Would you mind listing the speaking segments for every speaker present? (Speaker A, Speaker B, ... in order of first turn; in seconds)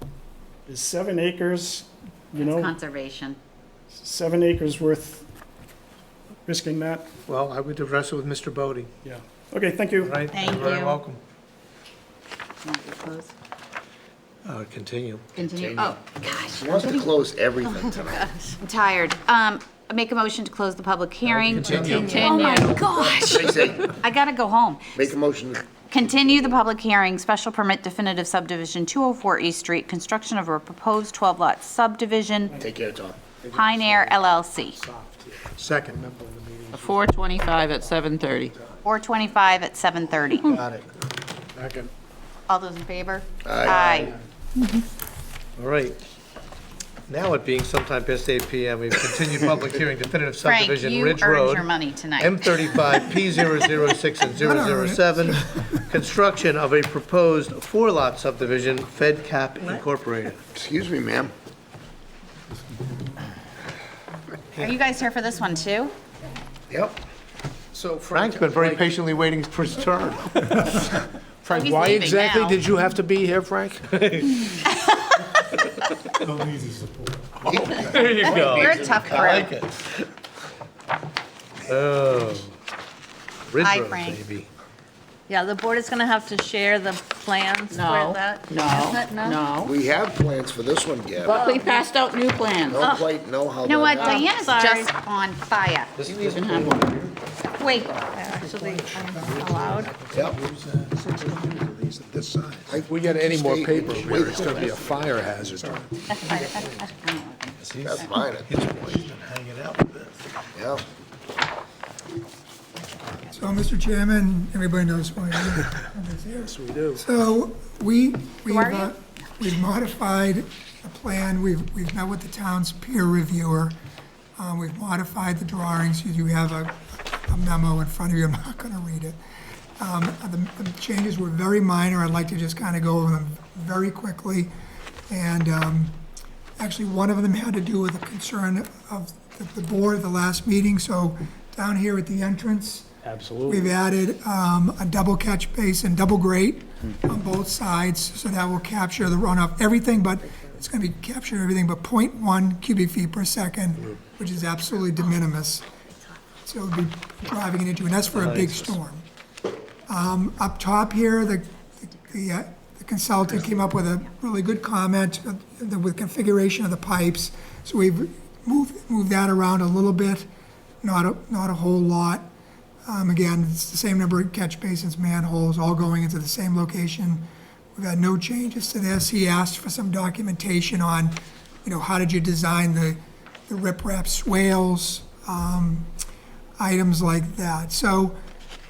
Speaker A: 0.7-2.7, 3.9-5.3, 6.5-7.1, 9.0-10.2, 143.0-143.8
Speaker B: 2.4-3.4, 10.3-11.0, 12.6-13.3, 15.4-17.1, 18.6-25.0, 25.9-32.6, 33.4-34.8, 38.8-40.5, 42.5-44.2, 50.4-52.8, 64.6-65.9, 71.5-72.6, 78.5-79.5, 83.6-84.2, 88.5-89.5, 93.7-95.9, 97.6-98.0, 106.1-108.1, 112.9-113.2, 118.5-118.9
Speaker C: 7.3-8.9, 10.0-11.2, 14.4-15.3, 21.5-22.1, 35.6-36.0, 45.6-46.0, 47.1-60.4, 67.8-70.9, 73.9-74.7, 77.7-80.0, 81.7-82.5, 83.5-84.5, 96.0-97.1, 98.0-101.9, 103.8-105.1, 106.4-106.8, 107.6-110.2, 158.1-158.8
Speaker D: 15.4-18.4, 21.6-24.0, 24.9-26.6, 32.6-33.4, 43.4-44.1, 60.5-61.3, 77.4-79.4, 89.6-91.5, 92.6-94.5, 96.1-96.5, 100.1-100.4, 102.0-105.8, 107.8-109.0, 110.5-110.8
Speaker E: 17.6-18.6, 21.7-22.6, 85.3-89.4, 91.2-91.9, 92.8-93.1, 94.0-94.9, 97.9-100.0
Speaker F: 36.1-37.0, 68.1-68.9, 70.5-70.7, 71.4-73.9, 102.8-105.8
Speaker G: 36.7-38.5, 87.7-89.7, 91.2-92.8, 96.3-97.0
Speaker H: 54.3-55.8, 113.3-123.8, 124.4-129.2, 129.8-134.5, 135.1-136.0, 136.6-142.9, 143.4-155.7, 156.4-159.1, 159.9-170.3, 170.8-172.3, 172.9-185.9, 186.6-188.2